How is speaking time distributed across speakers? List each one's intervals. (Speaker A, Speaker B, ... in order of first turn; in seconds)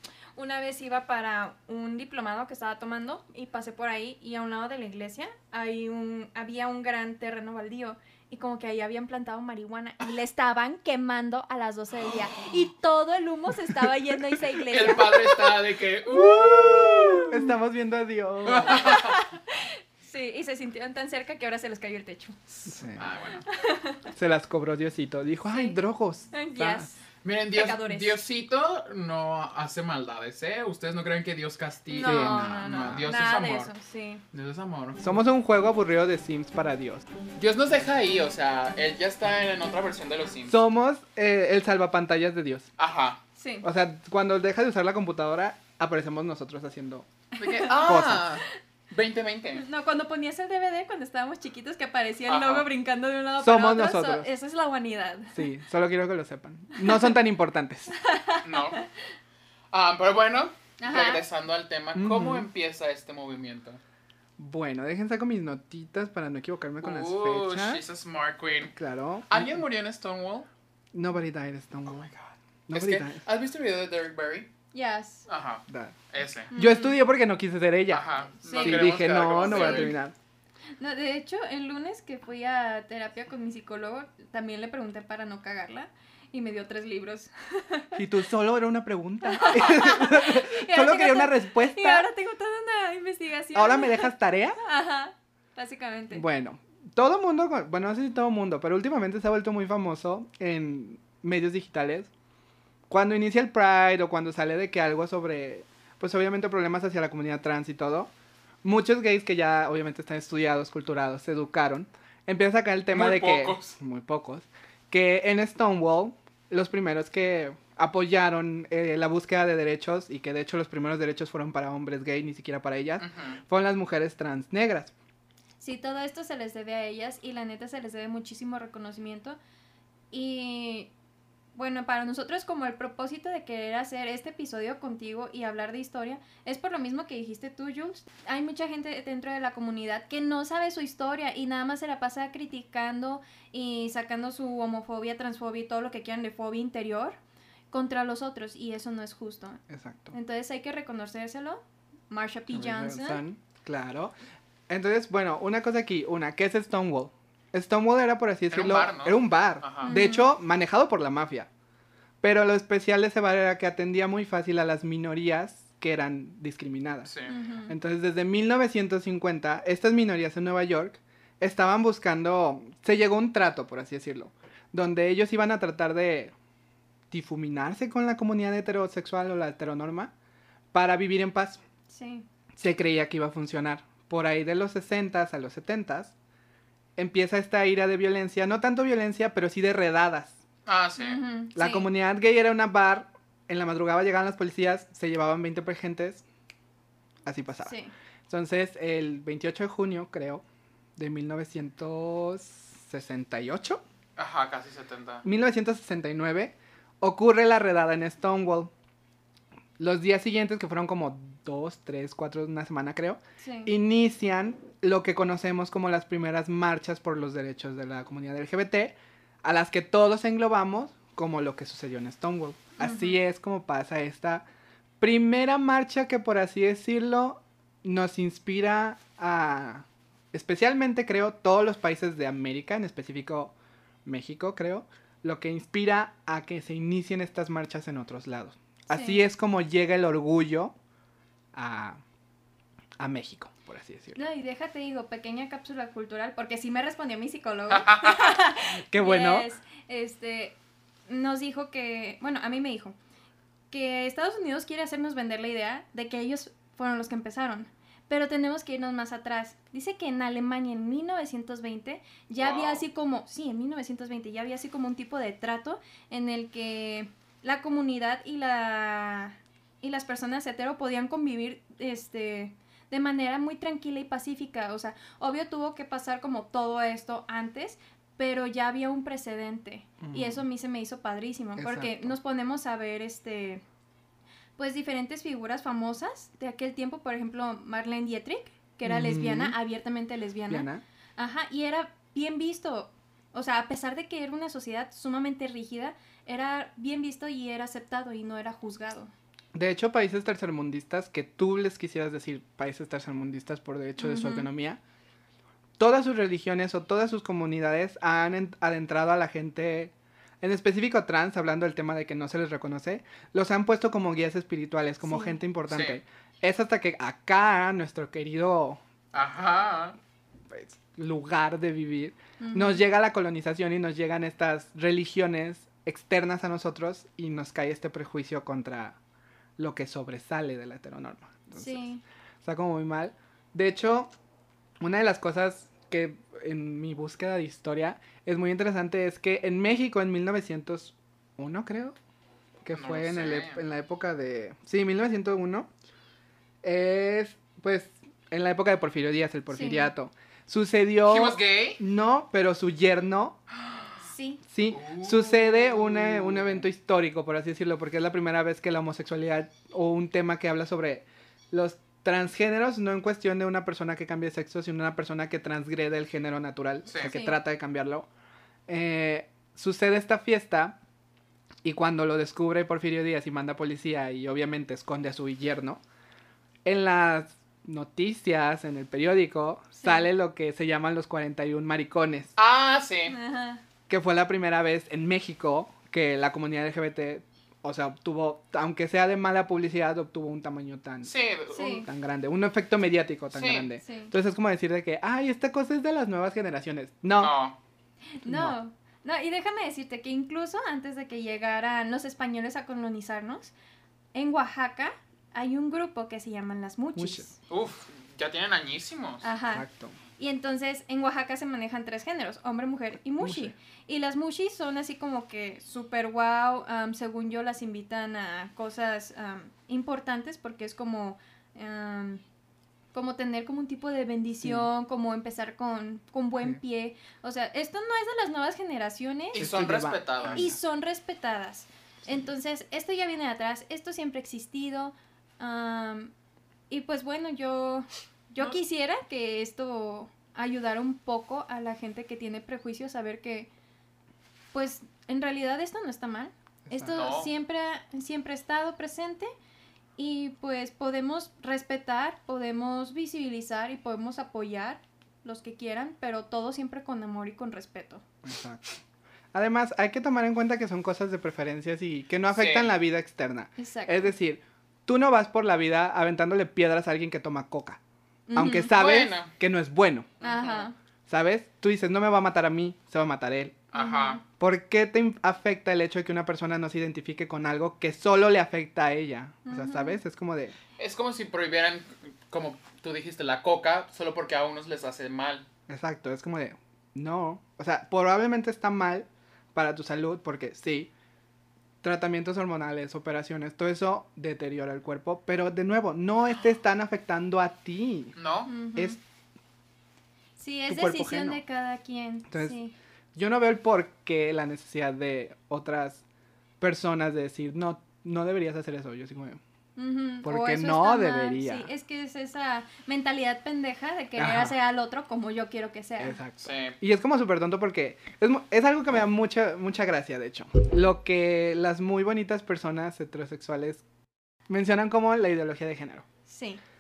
Speaker A: 0.3-15.6, 16.1-17.3, 18.7-22.4, 23.5-24.0, 25.5-25.8, 26.3-27.0, 27.5-28.2, 31.9-34.2, 43.4-43.6, 47.3-47.9, 49.6-55.5, 56.8-57.1, 58.0-58.8, 60.8-61.2, 74.7-75.3, 76.5-77.0, 78.4-80.0, 80.8-88.0, 89.2-96.2, 125.6-129.4, 130.1-130.9, 131.6-147.2, 147.7-149.6, 150.1-153.2, 159.8-160.3, 167.3-167.8, 181.9-182.3, 191.0-191.9, 197.6-197.9, 213.4-213.7, 222.8-223.2, 238.9-239.2, 244.1-250.6, 251.1-253.0, 253.7-283.6, 284.6-299.1, 304.0-304.5, 315.0-315.4, 322.4-322.8, 331.6-332.0, 349.5-349.9, 354.0-354.4, 367.1-367.4, 379.8-380.1, 383.1-383.6, 391.5-391.9, 393.8-394.1, 398.2-403.5, 404.1-407.3, 409.2-409.7, 410.2-422.2, 422.9-429.4, 430.4-436.1, 436.7-443.5, 444.5-449.3, 450.0-458.0, 463.6-464.1, 468.3-468.8, 470.2-470.7, 473.7-474.2, 479.5-480.0, 498.5-499.0, 500.4-502.8, 509.8-516.2, 526.3-526.6
Speaker B: 14.7-17.5, 18.5-19.2, 22.5-23.5, 27.2-33.7, 34.3-35.1, 37.4-40.6, 42.8-43.2, 47.4-49.6, 52.3-52.7, 58.4-58.8, 59.7-63.8, 66.8-68.8, 69.3-70.5, 71.9-74.5, 75.3-76.5, 77.9-80.0, 112.9-113.8, 123.0-123.4, 158.5-159.9, 167.1-167.3, 190.7-191.2, 204.2-205.2, 247.7-248.4, 262.4-262.8, 315.7-316.0, 319.1-320.0, 342.7-343.6, 351.1-351.8, 353.7-353.9, 354.7-356.6, 366.9-367.1, 382.4-383.2, 391.0-391.8, 393.3-393.7, 397.2-397.6, 407.5-409.3, 429.3-430.4, 446.9-447.3, 462.3-462.7, 468.7-469.3, 470.2-470.7, 473.7-474.2, 480.8-485.5, 498.2-498.5, 516.4-516.8
Speaker C: 17.3-18.9, 22.7-23.1, 24.1-26.9, 32.0-33.1, 35.0-37.1, 40.5-42.7, 43.6-47.1, 47.8-48.3, 53.4-54.3, 55.3-57.9, 62.0-62.5, 64.4-67.8, 68.8-69.5, 70.9-72.1, 72.7-73.2, 75.7-76.0, 76.5-80.1, 88.0-92.1, 93.5-94.6, 96.1-102.1, 102.9-108.1, 108.6-124.9, 149.7-150.2, 152.5-154.1, 154.7-161.5, 162.2-167.1, 167.7-176.3, 177.1-180.1, 180.7-181.6, 182.6-186.2, 187.0-190.4, 191.6-196.2, 197.2-197.7, 198.3-200.4, 201.0-203.8, 205.2-208.7, 209.8-224.5, 225.0-240.8, 241.5-242.0, 243.0-244.2, 248.9-249.5, 280.0-280.4, 281.6-282.2, 288.9-289.6, 290.5-290.8, 299.6-304.8, 305.8-318.8, 320.5-329.0, 329.6-331.9, 332.4-334.1, 334.8-342.0, 342.6-345.7, 346.6-353.4, 354.5-368.1, 368.7-370.8, 371.6-375.8, 376.6-382.3, 383.9-391.1, 391.8-397.4, 398.2-398.6, 407.0-407.3, 409.5-410.0, 413.2-413.6, 429.4-430.6, 446.7-447.1, 458.2-458.6, 459.3-467.8, 468.4-470.1, 471.1-473.6, 474.4-480.6, 485.7-490.9, 491.8-498.2, 500.7-501.4, 502.3-502.6, 503.1-506.0, 506.6-509.4, 510.2-511.7, 514.2-514.5, 516.0-523.8, 524.5-526.0